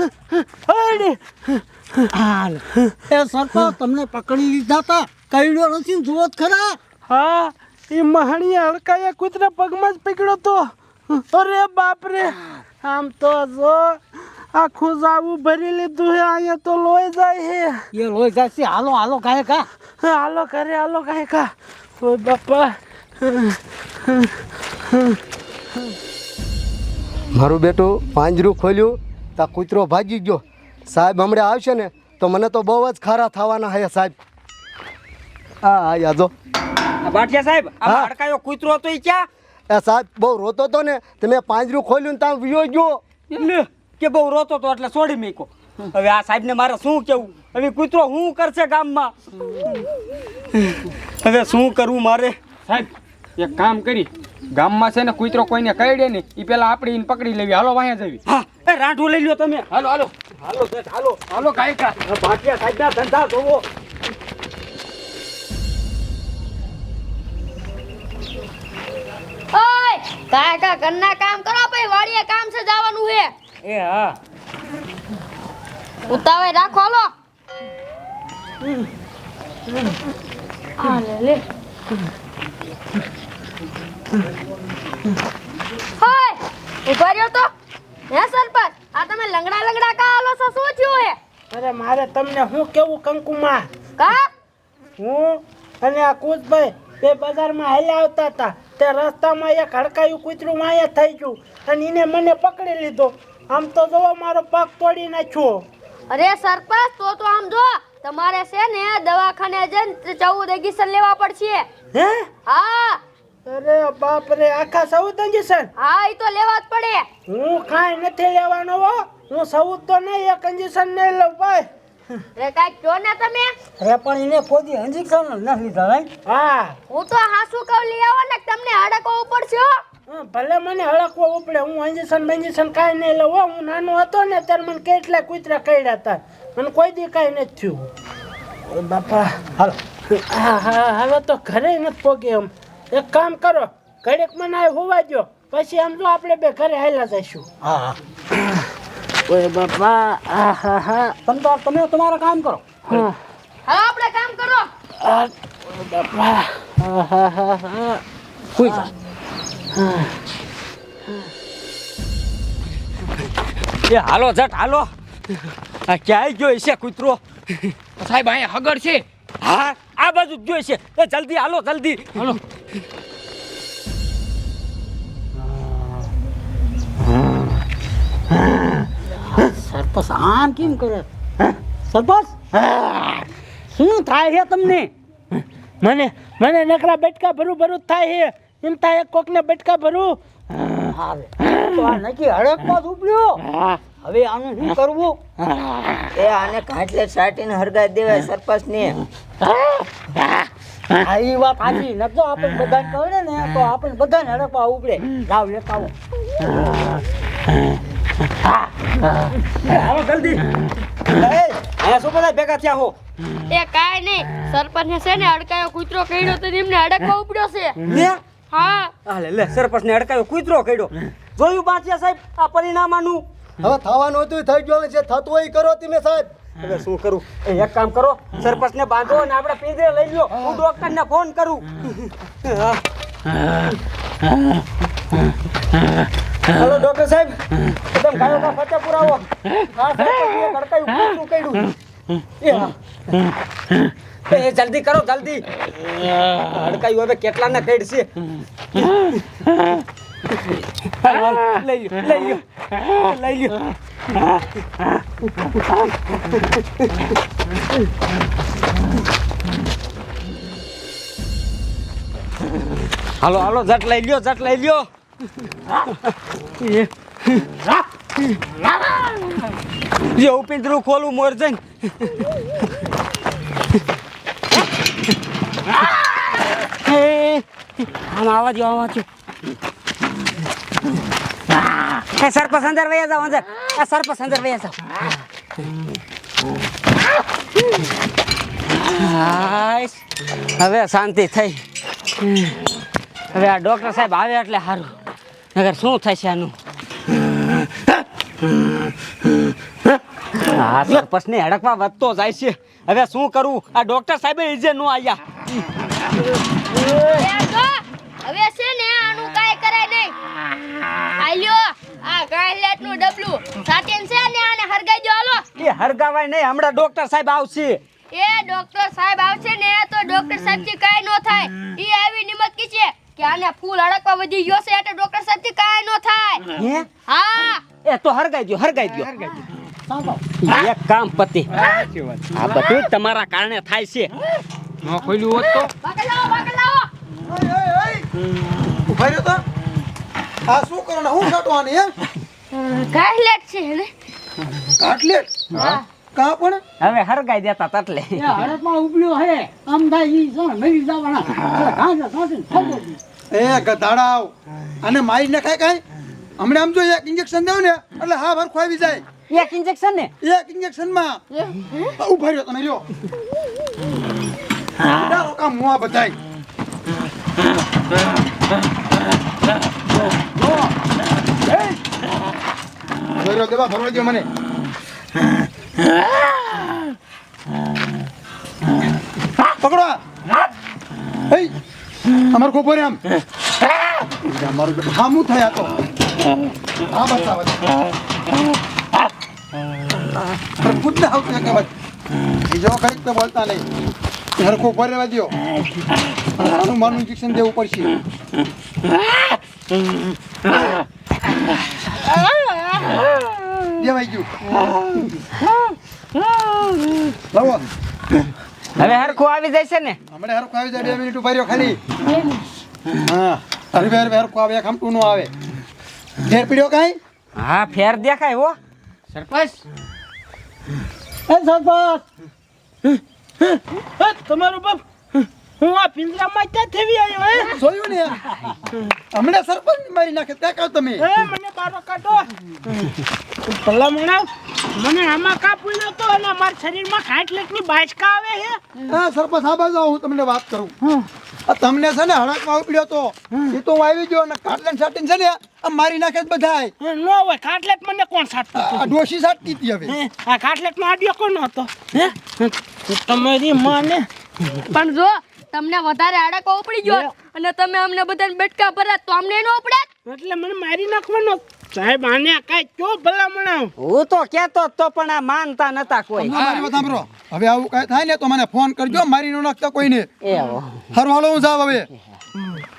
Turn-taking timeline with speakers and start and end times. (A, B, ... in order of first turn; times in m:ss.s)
0:00.3-0:01.6 A
0:02.1-0:06.8 B
0:07.1-0:14.0 A
0:14.5-0:17.8 A
0:18.0-0:19.7 B
0:20.0-0:23.6 A
0:27.3-0:34.1 C
0:35.6-0:36.3 C
0:37.0-0:39.3 D
0:37.8-0:38.1 C
0:39.7-0:43.0 C
0:43.3-0:49.1 D
0:51.2-0:52.4 D
0:52.7-0:58.2 E
0:58.3-0:59.7 D
1:00.4-1:01.3 D
1:01.3-1:01.8 E
1:01.9-1:03.6 D
1:09.5-1:13.3 F
1:13.6-1:14.2 D
1:16.1-1:17.1 F
1:20.8-1:21.4 F
1:26.0-1:27.5 F
1:28.1-1:31.2 F
1:31.5-1:33.7 A
1:34.0-1:34.3 F
1:35.0-1:45.6 A
1:46.1-1:51.7 F
1:51.9-1:52.3 A
1:52.4-1:53.0 F
1:53.4-1:55.7 A
1:55.8-1:57.1 F
1:57.3-2:01.7 A
2:02.4-2:03.5 F
2:03.8-2:06.1 B
2:06.2-2:06.8 A
2:06.9-2:09.8 F
2:10.1-2:17.9 A
2:18.7-2:19.5 A
2:20.1-2:27.5 A
2:29.3-2:31.0 B
2:29.3-2:31.1 A
2:31.2-2:33.0 D
2:31.5-2:31.9 B
2:33.6-2:34.7 F
2:37.1-2:37.8 B
2:38.6-2:38.8 D
2:43.8-2:44.9 D
2:45.8-2:47.7 D
2:49.4-2:52.4 D
2:59.3-3:01.0 B
3:01.9-3:03.2 B
3:03.7-3:04.9 B
3:05.8-3:10.2 A
3:10.9-3:13.4 B
3:14.0-3:15.2 B
3:16.1-3:19.0 G
3:21.0-3:25.9 B
3:22.0-3:22.9 D
3:24.8-3:25.7 D
3:29.6-3:30.4 D
3:31.1-3:32.9 D
3:33.5-3:37.8 F
3:37.9-3:38.2 D
3:38.5-3:39.0 F
3:39.0-3:43.2 D
3:43.6-3:46.3 C
3:46.6-3:51.9 D
3:52.4-3:52.8 D
3:56.5-3:57.4 D
3:57.9-4:01.7 D
4:02.4-4:02.7 D
4:04.3-4:08.1 D
4:11.0-4:13.6 D
4:23.2-4:24.9 D
4:26.6-4:27.7 D
4:28.8-4:29.4 D
4:30.0-4:32.1 D
4:36.7-4:39.1 D
4:41.9-4:45.1 D
4:48.8-4:50.0 D
4:50.5-4:51.6 D
4:53.3-4:55.0 D
4:55.5-4:56.6 D
5:00.4-5:05.2 D
5:07.1-5:10.1 F
5:11.2-5:15.5 F
5:15.6-5:17.8 D
5:18.1-5:26.5 F
5:26.5-5:26.9 D
5:27.0-5:27.7 F
5:27.8-5:29.1 D
5:29.9-5:30.2 B
5:30.4-5:31.5 D
5:32.3-5:34.1 D
5:35.1-5:35.6 E
5:35.8-5:36.9 F
5:37.2-5:38.1 H
5:38.8-5:39.4 H
5:40.5-5:41.9 H
5:42.5-5:43.9 F
5:44.8-5:46.6 H
5:45.5-5:45.8 F
5:46.8-5:48.3 D
5:48.2-5:53.0 B
5:53.3-5:55.8 H
5:56.4-5:59.0 H
5:59.3-6:00.1 D
6:00.2-6:01.2 H
6:01.7-6:02.9 H
6:04.8-6:06.2 H
6:13.2-6:14.3 H
6:19.5-6:20.0 H
6:21.3-6:21.6 H
6:22.3-6:23.0 H
6:24.2-6:25.7 H
6:26.9-6:27.6 H
6:30.6-6:31.7 H
6:32.5-6:33.6 H
6:34.4-6:35.3 H
6:36.4-6:37.9 H
6:43.8-6:44.3 H
6:47.3-6:47.6 H
6:48.8-6:50.0 D
6:50.1-6:51.8 H
6:53.0-6:55.3 H
6:56.2-6:57.0 H
6:57.4-6:58.6 D
7:01.3-7:02.0 B
7:03.4-7:04.8 A
7:05.6-7:07.5 A
7:07.5-7:08.2 H
7:09.1-7:11.0 H
7:11.0-7:12.3 A
7:13.4-7:18.6 A
7:18.9-7:20.7 H
7:21.4-7:26.7 H
7:26.8-7:28.9 A
7:28.6-7:29.9 H
7:29.8-7:34.0 A
7:34.7-7:39.9 F
7:40.0-7:43.7 A
7:43.8-7:46.7 D
7:46.2-7:50.1 H
7:50.2-7:50.7 D
7:50.9-7:51.9 H